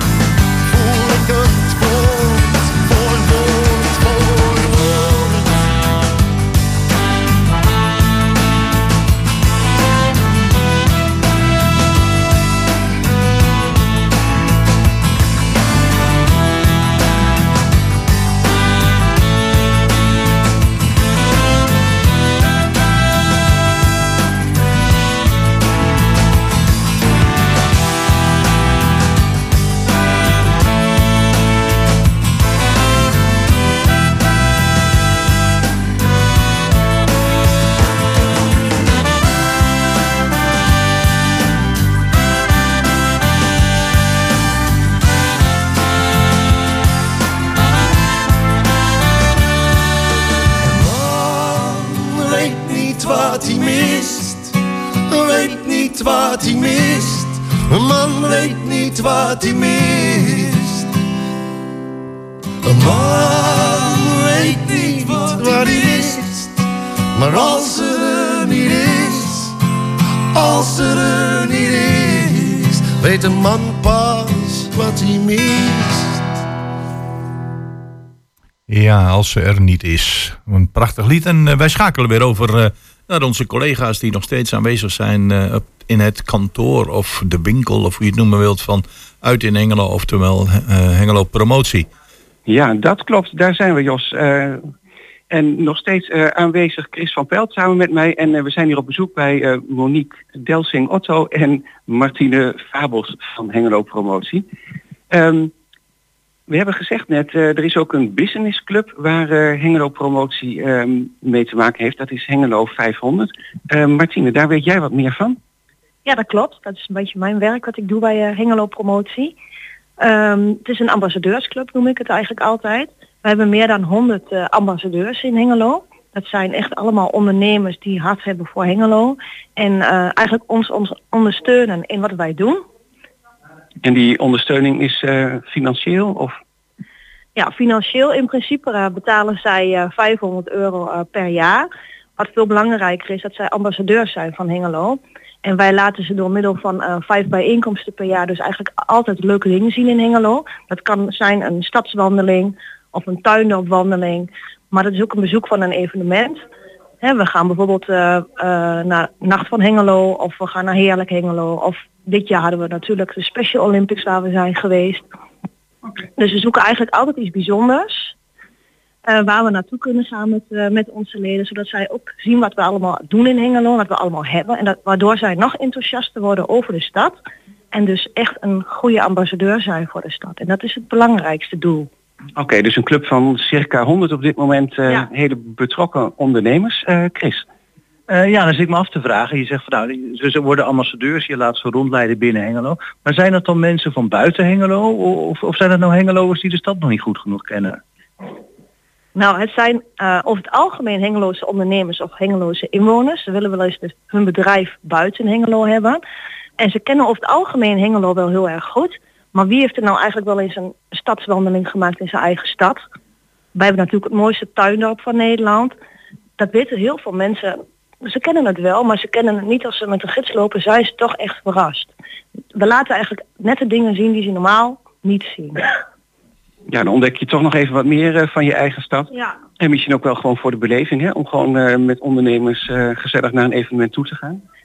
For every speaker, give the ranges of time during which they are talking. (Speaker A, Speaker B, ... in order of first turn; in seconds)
Speaker A: 0.6-5.7, 50.6-54.6, 55.1-60.9, 62.6-66.6, 67.1-69.5, 70.3-76.2
Speaker B: 78.7-91.9
Speaker C: 92.5-94.7, 95.3-104.5, 105.1-105.5, 106.5-115.4, 133.8-136.4, 182.4-187.5, 226.7-234.4
Speaker D: 116.0-119.4, 120.0-132.6, 137.4-156.4, 157.0-165.1, 166.2-168.1, 169.1-177.2, 177.7-181.9, 199.1-206.0, 206.6-212.8, 213.5-215.8, 216.4-221.9, 222.6-225.6, 229.1-229.4
Speaker E: 188.1-197.8